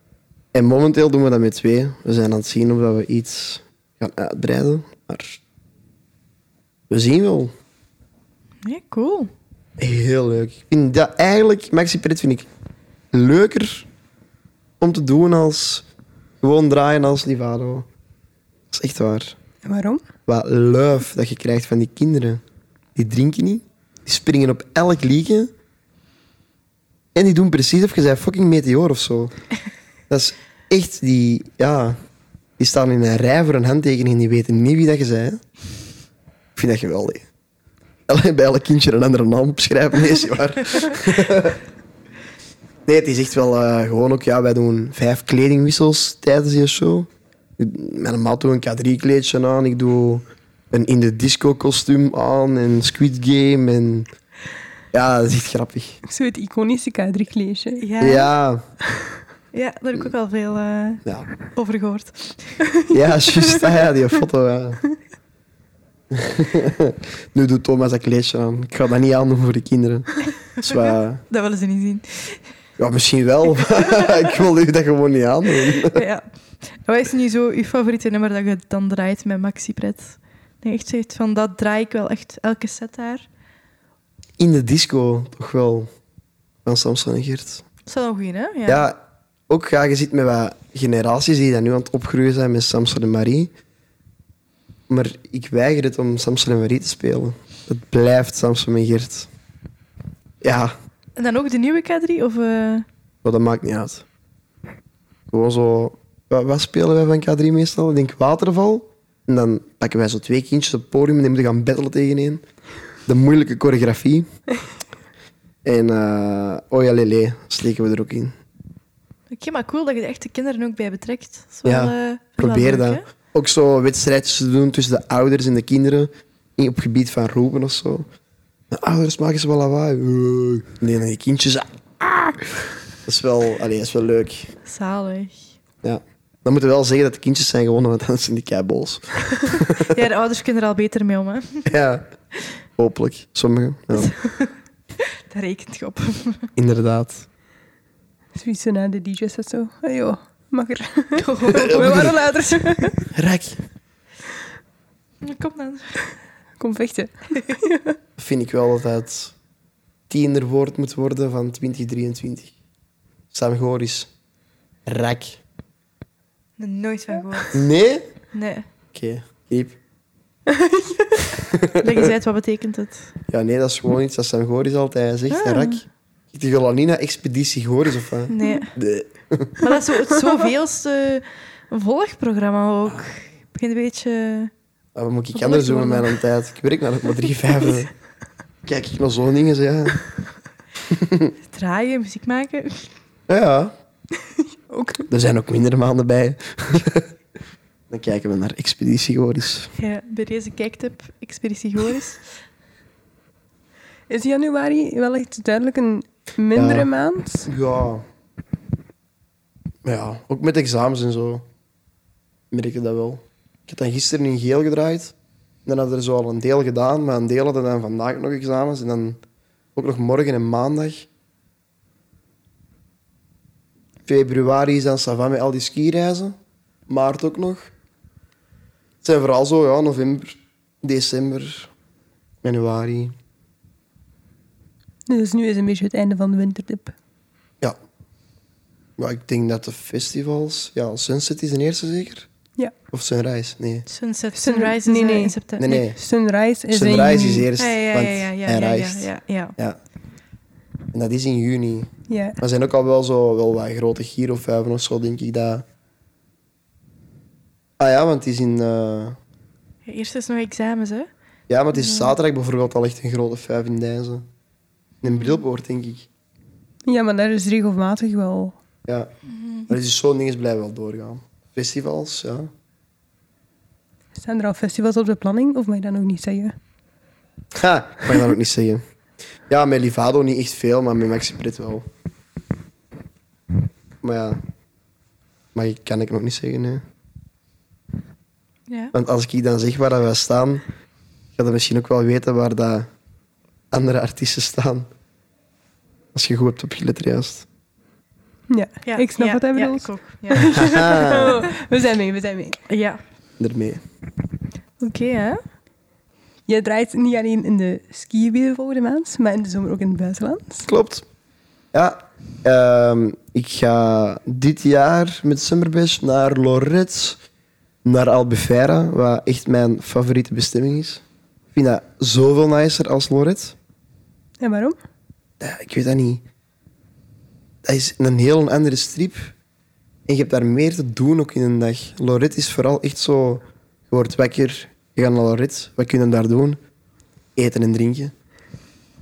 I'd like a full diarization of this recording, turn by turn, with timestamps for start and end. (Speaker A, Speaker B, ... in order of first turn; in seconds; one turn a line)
Speaker A: 0.5-5.4
Speaker A: 6.9-7.5
Speaker B: 8.6-9.3
Speaker A: 9.8-12.5
Speaker A: 13.1-13.9
Speaker A: 14.8-15.8
Speaker A: 16.4-17.9
Speaker A: 18.7-19.4
Speaker C: 19.6-20.0
Speaker A: 20.3-22.4
Speaker A: 22.9-25.5
Speaker A: 27.1-29.3
Speaker A: 30.1-32.0
Speaker A: 32.6-35.4
Speaker A: 36.5-37.2
Speaker A: 38.1-41.6
Speaker A: 42.9-54.1
Speaker A: 54.9-56.0
Speaker C: 56.0-57.8
Speaker B: 57.8-58.3
Speaker A: 58.0-58.6
Speaker B: 59.5-62.6
Speaker A: 62.9-64.8
Speaker C: 63.3-63.7
Speaker A: 66.1-71.2
Speaker B: 70.6-72.4
Speaker A: 72.8-76.0
Speaker B: 75.7-83.2
Speaker A: 84.4-85.9
Speaker A: 86.6-87.6
Speaker B: 87.8-88.9
Speaker A: 88.7-89.0
Speaker A: 89.5-93.5
Speaker A: 94.9-99.3
Speaker A: 100.4-100.7
Speaker B: 101.2-102.8
Speaker A: 103.2-104.0
Speaker A: 105.3-112.4
Speaker A: 113.0-114.3
Speaker A: 115.6-118.3
Speaker B: 119.3-123.0
Speaker A: 121.6-128.1
Speaker A: 128.7-134.5
Speaker B: 134.6-135.4
Speaker A: 135.8-140.0
Speaker B: 139.4-141.7
Speaker A: 141.7-142.0
Speaker A: 142.8-144.1
Speaker B: 143.9-146.5
Speaker A: 146.6-147.2
Speaker C: 148.3-153.0
Speaker B: 151.2-152.3
Speaker A: 151.5-152.2
Speaker A: 153.1-153.6
Speaker B: 155.2-156.0
Speaker C: 156.6-158.0
Speaker A: 158.2-159.3
Speaker A: 160.1-162.5
Speaker A: 163.3-164.1
Speaker A: 164.8-165.4
Speaker B: 166.6-167.7
Speaker A: 167.5-168.0
Speaker B: 168.3-168.7
Speaker A: 168.9-169.8
Speaker C: 170.5-171.3
Speaker A: 171.4-172.1
Speaker B: 171.8-173.1
Speaker A: 173.3-179.6
Speaker B: 175.3-175.8
Speaker B: 178.3-178.7
Speaker B: 179.6-184.5
Speaker A: 184.9-187.9
Speaker B: 185.3-186.1
Speaker A: 188.6-190.0
Speaker A: 190.9-191.3
Speaker B: 191.5-192.9
Speaker A: 193.3-193.7
Speaker C: 194.7-195.1
Speaker A: 195.1-197.1
Speaker A: 197.9-199.7
Speaker B: 199.8-202.2
Speaker C: 204.1-207.5
Speaker A: 206.5-206.9
Speaker A: 207.4-208.0
Speaker A: 209.8-211.5
Speaker A: 212.5-215.1
Speaker A: 215.7-219.2
Speaker A: 219.7-221.1
Speaker A: 224.1-226.3
Speaker A: 226.9-227.7
Speaker A: 229.0-231.7
Speaker A: 232.4-233.1
Speaker C: 235.1-236.9
Speaker A: 239.0-242.3
Speaker A: 242.9-243.8
Speaker B: 243.9-245.8
Speaker C: 244.3-247.5
Speaker A: 245.6-246.0
Speaker A: 246.7-249.8
Speaker B: 247.6-249.6
Speaker A: 250.9-255.6
Speaker C: 252.1-252.4
Speaker A: 257.8-259.2
Speaker B: 259.8-261.1
Speaker A: 261.5-264.3
Speaker B: 261.7-262.1
Speaker A: 265.0-266.1
Speaker B: 265.0-265.4
Speaker C: 266.9-268.6
Speaker B: 269.3-269.7
Speaker A: 269.7-272.5
Speaker C: 274.1-276.5
Speaker A: 277.5-278.8
Speaker A: 279.5-281.9
Speaker A: 284.0-284.4
Speaker A: 285.5-286.8
Speaker B: 288.7-288.9
Speaker A: 288.9-290.6
Speaker A: 291.4-292.9
Speaker A: 293.7-294.9
Speaker A: 296.1-297.4
Speaker C: 298.5-302.6
Speaker B: 298.8-301.6
Speaker A: 300.5-301.3
Speaker B: 302.7-303.0
Speaker A: 303.4-303.8
Speaker B: 304.8-305.4
Speaker C: 306.5-310.7
Speaker A: 310.6-311.0
Speaker A: 311.7-317.2
Speaker A: 317.8-321.0
Speaker A: 321.5-323.5
Speaker C: 324.4-324.8
Speaker A: 325.4-326.2
Speaker A: 327.6-329.3
Speaker A: 330.1-336.6
Speaker A: 337.4-338.1